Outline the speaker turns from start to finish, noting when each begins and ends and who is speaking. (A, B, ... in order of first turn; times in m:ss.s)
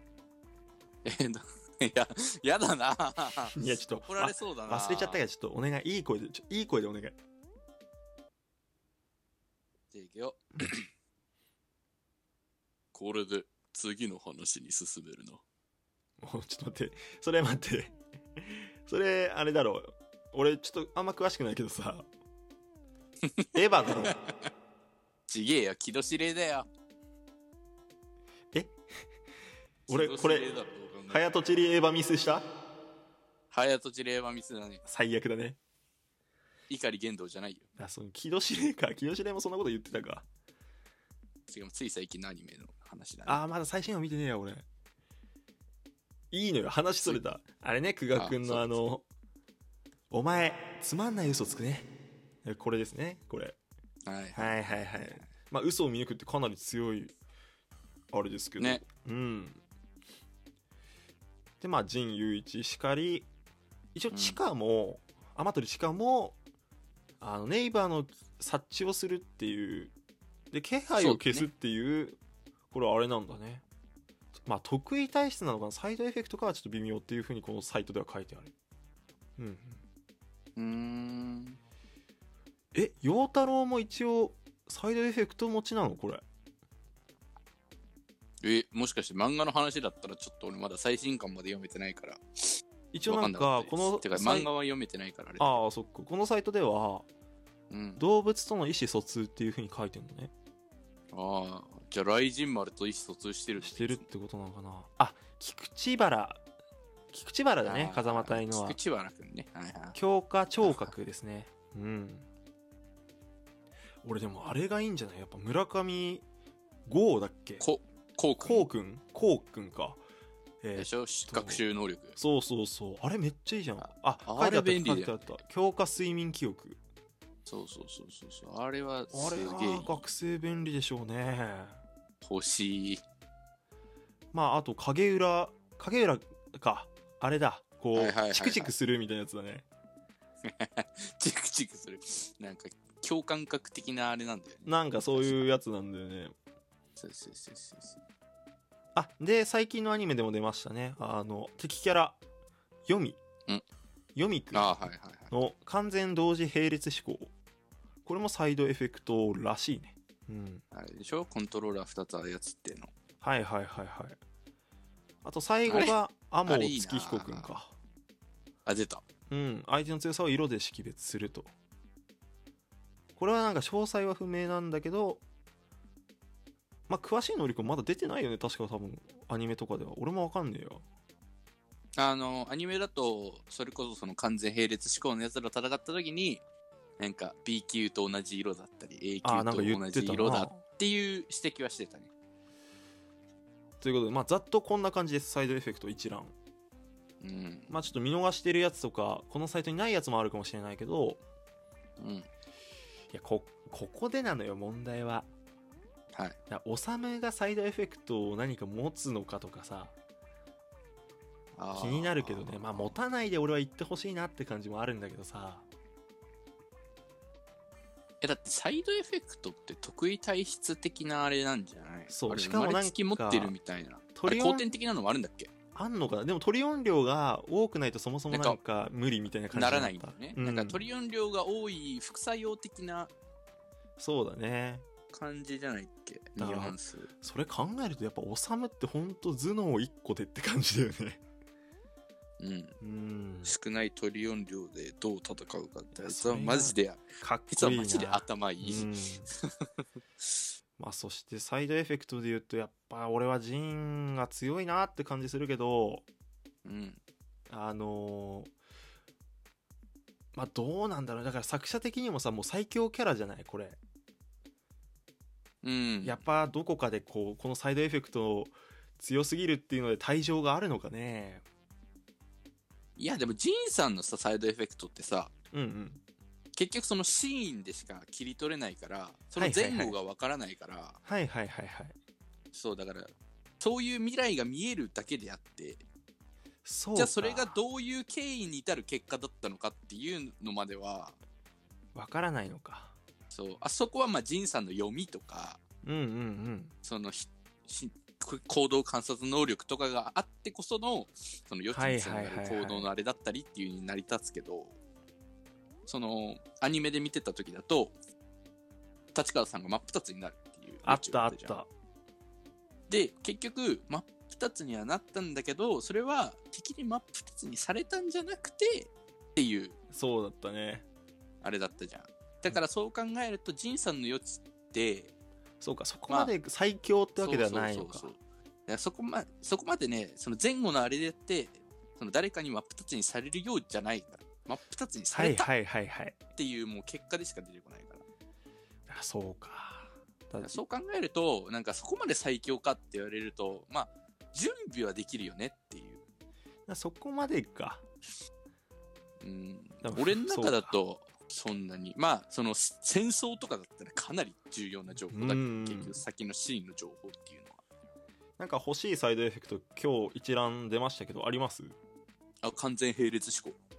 0:01.0-0:05.2 A
0:03.5-0:07.2 B
0:09.9-0:10.9 A
0:12.9-0:15.4 A
0:16.2-0:22.1 B
0:23.2-0:24.3 A
0:23.5-0:24.2 B
0:25.3-0:26.7 A
0:29.9-0:30.5 B
0:29.9-0:31.2 A
0:31.1-0:32.4 B
0:33.5-0:34.8 A
0:34.8-0:35.6 B
0:36.7-0:37.7 A
0:37.8-0:40.2 B
0:41.5-0:43.4 A
0:43.2-0:44.6 B
0:46.3-0:49.0 B
0:47.0-0:47.3 A
0:48.1-0:48.8 A
0:50.1-0:51.9 B
0:52.4-0:53.6 B
0:54.0-0:55.2 A
0:54.4-0:57.1 B
0:58.1-0:59.6 B
0:58.6-0:58.8 A
1:01.6-1:03.3 B
1:03.9-1:06.4 B
1:04.1-1:04.4 A
1:07.2-1:09.9 B
1:10.5-1:12.2 B
1:11.0-1:11.5 A
1:12.7-1:13.6 B
1:14.4-1:18.5 B
1:19.4-1:19.8 B
1:20.6-1:21.6 A
1:22.7-1:26.2 B
1:28.4-1:35.6 A
1:32.9-1:34.5 B
1:35.4-1:37.1 B
1:37.7-1:38.0 A
1:38.0-1:40.3 B
1:41.1-1:44.0 A
1:43.6-1:46.4 B
1:47.1-1:48.8 B
1:47.6-1:50.0 A
1:49.9-1:52.2 B
1:50.6-1:50.9 A
1:54.0-1:56.2 B
1:56.9-1:57.6 B
1:57.6-1:58.7 A
1:58.4-2:00.0 B
2:00.6-2:01.6 B
2:00.7-2:02.2 A
2:02.1-2:06.8 B
2:03.8-2:05.2 A
2:07.4-2:10.0 A
2:09.1-2:11.8 B
2:12.2-2:13.0 A
2:14.3-2:19.6 B
2:17.9-2:18.7 A
2:20.4-2:25.4 A
2:24.6-2:26.3 B
2:27.0-2:28.0 A
2:28.9-2:32.2 B
2:32.9-2:33.2 B
2:34.2-2:37.3 B
2:34.5-2:35.3 A
2:38.0-2:40.6 B
2:40.7-2:42.9 A
2:43.2-2:44.2 B
2:45.2-2:47.7 B
2:45.7-2:47.5 A
2:48.6-2:49.0 A
2:49.3-2:51.5 B
2:53.2-2:55.2 B
2:56.9-3:00.8 B
3:02.0-3:06.4 A
3:07.0-3:12.1 A
3:09.2-3:10.6 B
3:13.8-3:16.3 B
3:17.2-3:17.7 A
3:17.7-3:21.2 B
3:22.0-3:22.3 A
3:23.1-3:25.3 B
3:26.5-3:29.9 B
3:31.6-3:32.9 A
3:31.7-3:35.6 B
3:38.2-3:45.5 A
3:42.1-3:43.6 B
3:44.1-3:44.7 B
3:45.7-3:50.9 B
3:48.3-3:48.6 A
3:49.5-3:53.1 A
3:54.0-3:54.8 B
3:55.1-3:57.1 A
3:56.4-4:01.2 B
4:02.4-4:02.8 A
4:02.8-4:03.5 B
4:03.4-4:10.2 A
4:05.9-4:09.3 B
4:10.8-4:16.0 B
4:16.6-4:17.0 A
4:17.5-4:18.5 B
4:20.3-4:23.8 B
4:25.6-4:26.2 A
4:26.0-4:31.4 B
4:33.0-4:35.3 A
4:35.5-4:36.0 B
4:36.6-4:41.0 A
4:39.3-4:39.9 B
4:41.0-4:41.9 B
4:42.5-4:45.8 A
4:46.6-4:47.6 B
4:47.0-4:51.2 A
4:51.9-4:52.9 B
4:53.3-4:55.6 A
4:55.8-4:56.7 B
4:56.8-5:04.8 A
5:01.7-5:02.9 B
5:05.8-5:07.9 A
5:09.1-5:11.6 A
5:10.8-5:11.7 B
5:12.9-5:19.8 A
5:19.9-5:20.8 B
5:21.4-5:25.1 A
5:25.6-5:28.1 B
5:27.2-5:35.5 A
5:35.1-5:36.2 B
5:36.4-5:38.0 A
5:38.9-5:40.6 B
5:40.4-5:46.0 A
5:46.7-5:47.8 B
5:49.2-5:57.6 A
5:49.8-5:50.8 B
5:55.1-5:56.0 B
5:58.4-6:01.8 B
6:02.4-6:03.6 A